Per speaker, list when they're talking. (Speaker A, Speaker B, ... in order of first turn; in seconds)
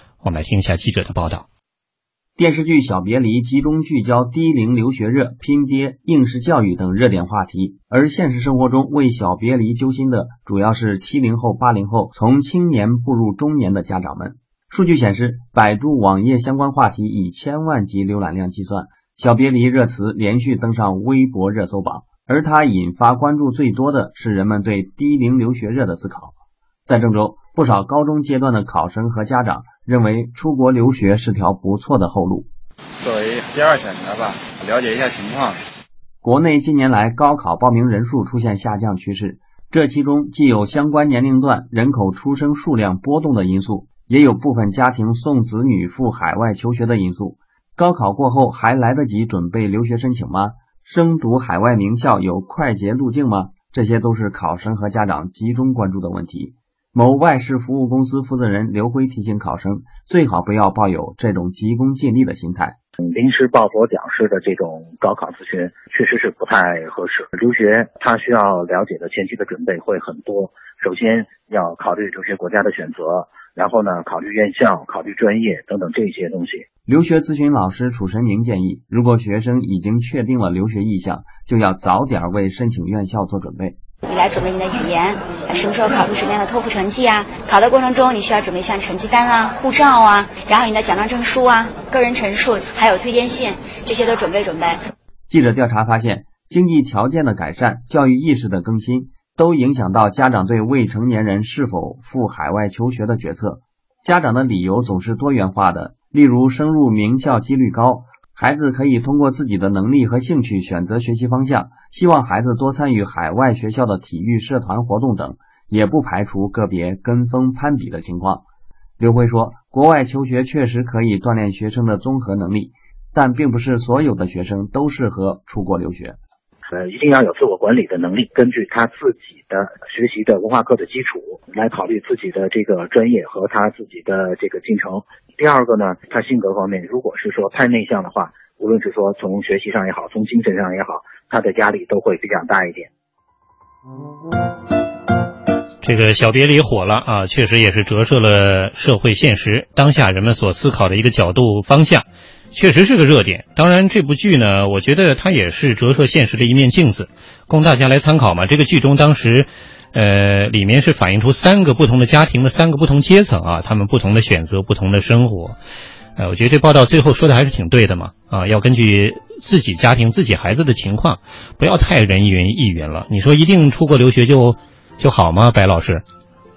Speaker A: 0.2-1.5, 145.8-165.6, 166.2-176.0
Speaker B: 2.4-26.3, 26.9-32.5, 36.2-62.8, 76.9-83.8, 95.3-118.4, 119.0-126.2
Speaker C: 33.0-35.6
Speaker D: 63.0-76.7, 126.7-142.9
Speaker E: 84.0-94.8